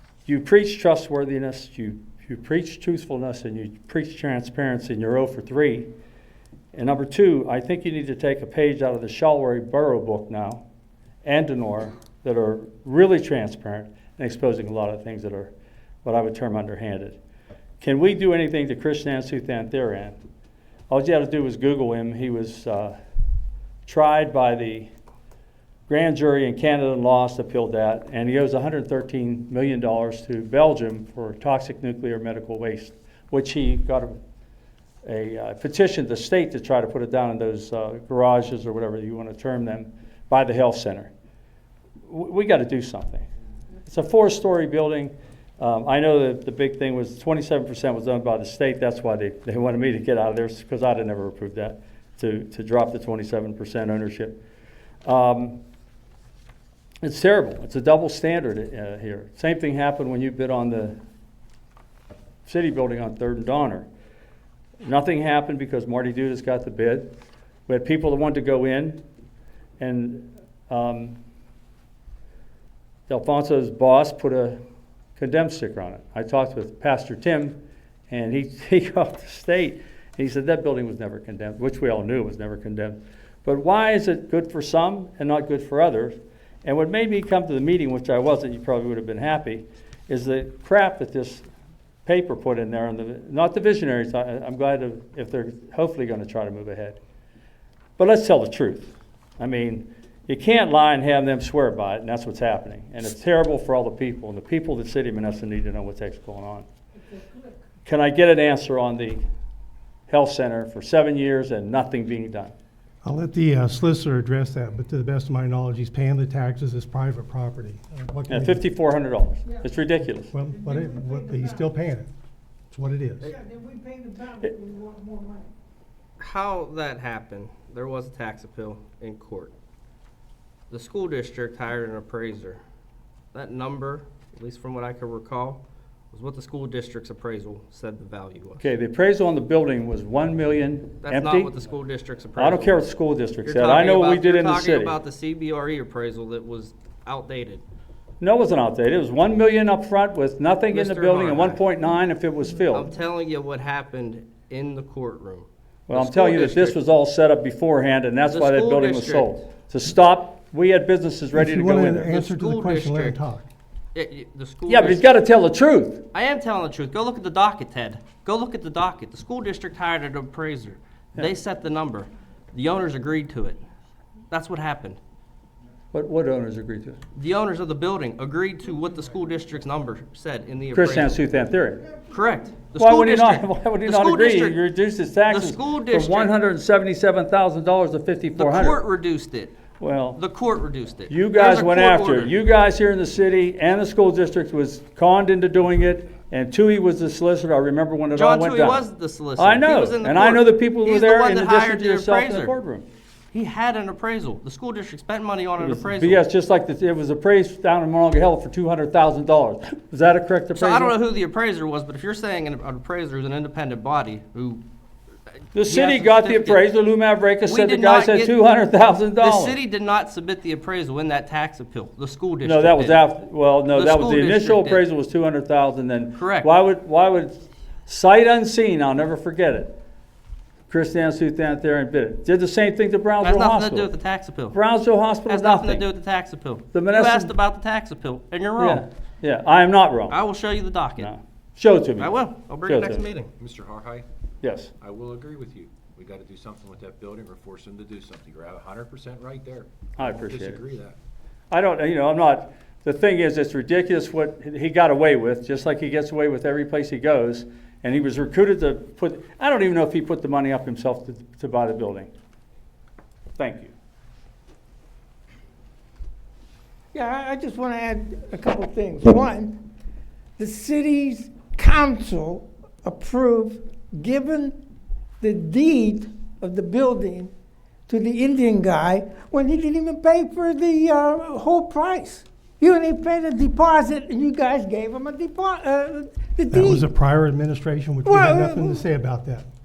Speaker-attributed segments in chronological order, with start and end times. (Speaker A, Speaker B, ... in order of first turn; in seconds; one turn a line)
Speaker A: 0.3-5.9
Speaker A: 6.7-10.6
Speaker A: 11.2-15.5
Speaker A: 16.1-17.2
Speaker A: 17.8-20.2
Speaker A: 20.9-23.0
Speaker A: 23.9-24.9
Speaker A: 25.9-34.2
Speaker A: 35.0-41.1
Speaker A: 42.1-43.2
Speaker A: 43.9-54.4
Speaker A: 55.0-55.6
Speaker A: 57.0-61.0
Speaker A: 62.5-63.9
Speaker A: 64.8-67.2
Speaker A: 67.7-69.0
Speaker A: 69.8-71.2
Speaker A: 73.1-74.6
Speaker A: 75.2-91.5
Speaker A: 92.1-97.0
Speaker A: 98.0-106.7
Speaker A: 107.8-109.2
Speaker A: 110.1-112.5
Speaker B: 113.0-118.7
Speaker A: 118.3-120.3
Speaker B: 120.3-122.1
Speaker C: 120.5-121.8
Speaker B: 122.7-123.3
Speaker C: 123.2-125.5
Speaker D: 126.2-129.5
Speaker D: 130.7-132.6
Speaker D: 133.3-138.6
Speaker A: 138.6-141.5
Speaker D: 141.0-142.9
Speaker A: 142.4-144.9
Speaker D: 143.4-147.6
Speaker A: 148.2-152.9
Speaker D: 150.7-151.6
Speaker D: 152.7-156.8
Speaker A: 155.9-162.2
Speaker D: 158.3-159.4
Speaker B: 161.3-163.4
Speaker D: 162.0-163.2
Speaker D: 163.9-165.1
Speaker A: 164.7-166.1
Speaker D: 166.1-173.6
Speaker D: 174.3-175.0
Speaker A: 175.9-177.0
Speaker D: 177.1-181.2
Speaker A: 180.7-181.9
Speaker D: 182.1-184.6
Speaker A: 182.8-188.8
Speaker D: 185.3-186.3
Speaker D: 188.3-189.6
Speaker A: 189.8-190.2
Speaker D: 190.2-192.3
Speaker A: 191.1-198.8
Speaker D: 198.1-202.5
Speaker A: 199.4-202.9
Speaker D: 203.3-206.2
Speaker A: 205.6-210.9
Speaker D: 210.6-214.6
Speaker A: 215.6-219.6
Speaker D: 215.6-216.6
Speaker D: 217.4-218.4
Speaker D: 219.2-223.0
Speaker A: 222.4-229.8
Speaker D: 223.7-224.8
Speaker D: 226.2-226.5
Speaker A: 230.7-233.9
Speaker D: 233.2-234.6
Speaker A: 234.5-235.9
Speaker D: 235.3-238.8
Speaker A: 236.7-237.3
Speaker A: 238.6-240.2
Speaker D: 240.1-241.1
Speaker A: 241.0-243.0
Speaker D: 242.0-243.3
Speaker E: 243.4-244.1
Speaker A: 244.4-244.7
Speaker E: 244.8-251.0
Speaker A: 250.0-250.6
Speaker A: 251.5-262.1
Speaker A: 263.4-263.7
Speaker C: 266.9-269.6
Speaker C: 270.4-274.6
Speaker C: 275.2-277.3
Speaker C: 277.9-286.9
Speaker B: 286.5-289.5
Speaker C: 288.1-288.9